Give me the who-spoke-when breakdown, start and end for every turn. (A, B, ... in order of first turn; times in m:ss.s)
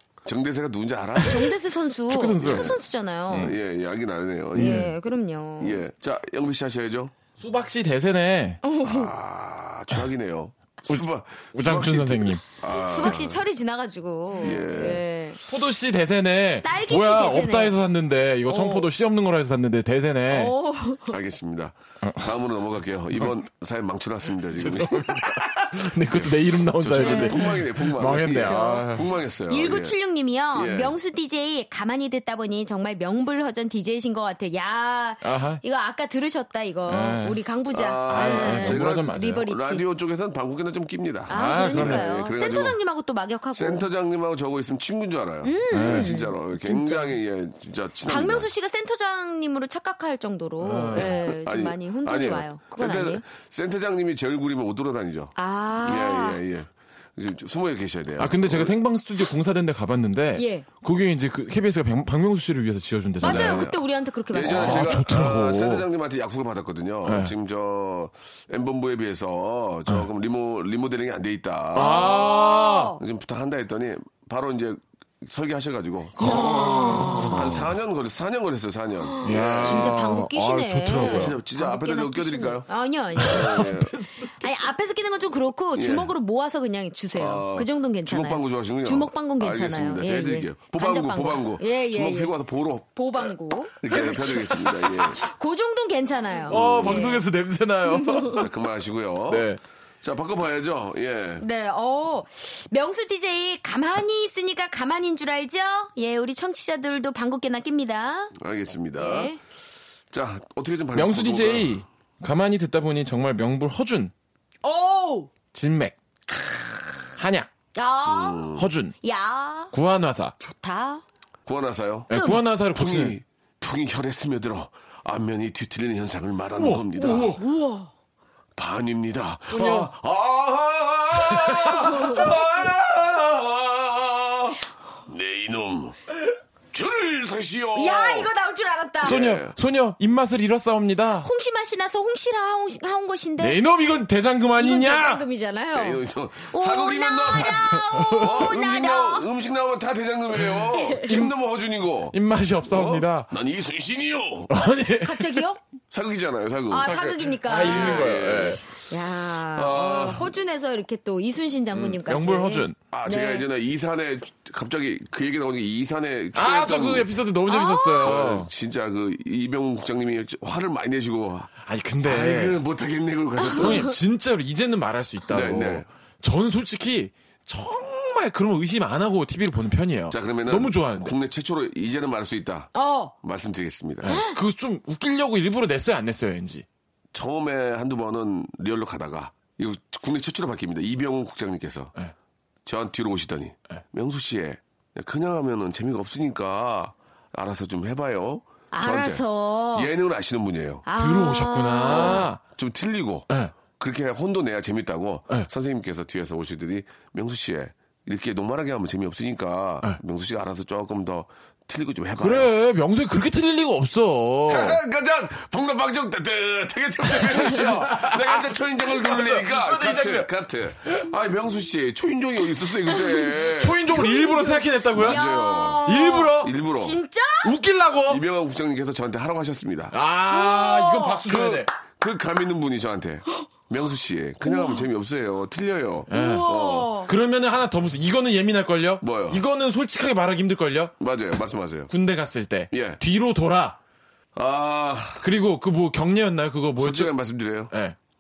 0:00.2-0:01.5 A
0:01.2-0:03.5 B
0:02.1-0:03.6 C
0:02.4-0:02.7 A
0:03.3-0:04.9 A
0:04.6-0:04.9 C
0:04.6-0:05.8 B
0:05.6-0:07.1 A
0:07.4-0:08.6 C
0:08.6-0:09.1 B
0:08.8-0:13.4 A
0:11.5-0:12.4 C
0:12.7-0:15.4 B
0:14.4-0:15.0 A
0:15.4-0:20.5 C
0:16.6-0:17.8 B
0:18.5-0:18.9 B
0:20.3-0:21.2 B
0:21.1-0:30.0 A
0:22.0-0:22.4 C
0:23.2-0:23.4 C
0:24.5-0:29.1 C
0:27.0-0:27.4 B
0:28.4-0:28.9 B
0:29.5-0:39.8 B
0:30.5-0:31.0 A
0:35.2-0:35.6 C
0:36.9-0:37.4 C
0:37.7-0:42.8 A
0:38.1-0:39.4 C
0:41.3-0:43.9 B
0:41.3-0:42.1 C
0:43.5-0:48.5 A
0:45.4-0:47.2 B
0:45.7-0:46.3 C
0:48.1-0:53.2 B
0:50.6-0:51.2 C
0:50.9-0:58.8 A
0:55.4-0:56.4 B
0:58.2-1:03.7 C
1:00.4-1:00.7 B
1:03.2-1:05.0 B
1:03.2-1:12.3 A
1:04.4-1:05.9 C
1:07.0-1:07.3 C
1:11.8-1:12.9 C
1:11.8-1:13.0 B
1:13.0-1:16.5 A
1:16.2-1:17.7 C
1:16.2-1:17.4 B
1:17.2-1:20.0 A
1:19.1-1:32.3 B
1:19.2-1:21.4 C
1:20.9-1:24.0 A
1:23.2-1:24.3 C
1:25.8-1:26.1 A
1:27.1-1:32.9 A
1:32.9-1:37.2 B
1:33.8-1:35.2 A
1:33.9-1:34.6 C
1:36.5-1:37.2 A
1:36.5-1:38.4 C
1:37.9-1:38.4 B
1:38.3-1:39.5 A
1:39.3-1:39.6 C
1:40.0-1:41.4 A
1:41.4-1:48.3 B
1:48.4-1:49.3 A
1:49.0-1:49.4 B
1:50.1-1:51.8 A
1:51.0-1:54.1 C
1:54.6-1:55.3 B
1:55.5-1:56.3 C
1:57.1-1:57.5 C
1:57.7-1:58.5 B
1:58.1-1:58.7 A
1:58.6-1:59.0 C
1:59.0-1:59.7 B
1:59.7-2:00.4 C
2:00.4-2:01.0 B
2:01.5-2:02.1 A
2:02.1-2:03.2 C
2:02.1-2:02.4 B
2:02.7-2:07.4 A
2:06.6-2:07.4 C
2:07.3-2:07.9 B
2:08.6-2:16.0 A
2:09.5-2:09.9 C
2:11.3-2:12.3 C
2:16.7-2:18.3 A
2:17.7-2:19.2 B
2:19.0-2:19.6 A
2:19.0-2:21.3 C
2:21.2-2:23.6 B
2:23.4-2:25.2 C
2:24.6-2:29.3 B
2:25.8-2:32.2 A
2:27.4-2:28.4 C
2:30.5-2:31.3 C
2:30.8-2:31.1 B
2:32.1-2:33.3 C
2:32.7-2:34.5 A
2:34.5-2:35.4 C
2:35.0-2:35.6 B
2:35.9-2:36.9 A
2:36.7-2:38.1 B
2:36.8-2:38.6 C
2:37.5-2:38.6 A
2:38.8-2:43.5 B
2:39.5-2:40.3 A
2:41.7-2:42.8 C
2:42.9-2:47.1 A
2:46.3-2:48.5 C
2:47.5-2:48.2 B
2:48.0-2:51.5 A
2:51.6-2:52.6 C
2:52.0-2:53.9 A
2:53.5-3:01.1 C
2:55.3-2:55.9 A
3:00.1-3:04.2 A
3:02.7-3:03.1 B
3:04.0-3:06.6 C
3:04.1-3:04.4 B
3:07.1-3:11.9 A
3:12.6-3:19.2 A
3:18.7-3:19.9 B
3:19.7-3:20.8 A
3:20.9-3:22.3 B
3:21.0-3:22.4 C
3:21.9-3:32.5 A
3:32.2-3:34.8 C
3:34.5-3:43.9 A
3:37.0-3:40.3 C
3:42.9-3:47.5 B
3:43.1-3:45.2 C
3:45.0-3:47.0 A
3:45.8-3:46.5 C
3:47.4-3:48.2 C
3:48.1-3:50.0 A
3:49.9-3:51.7 C
3:50.3-3:51.2 B
3:51.2-3:56.9 A
3:54.4-3:54.9 B
3:56.1-3:56.5 C
3:56.1-3:57.1 B
3:57.0-4:01.0 C
3:59.0-3:59.4 A
4:01.0-4:01.9 A
4:01.9-4:03.8 C
4:02.7-4:03.0 A
4:04.4-4:05.3 A
4:05.2-4:07.2 C
4:06.8-4:07.7 A
4:07.7-4:08.0 C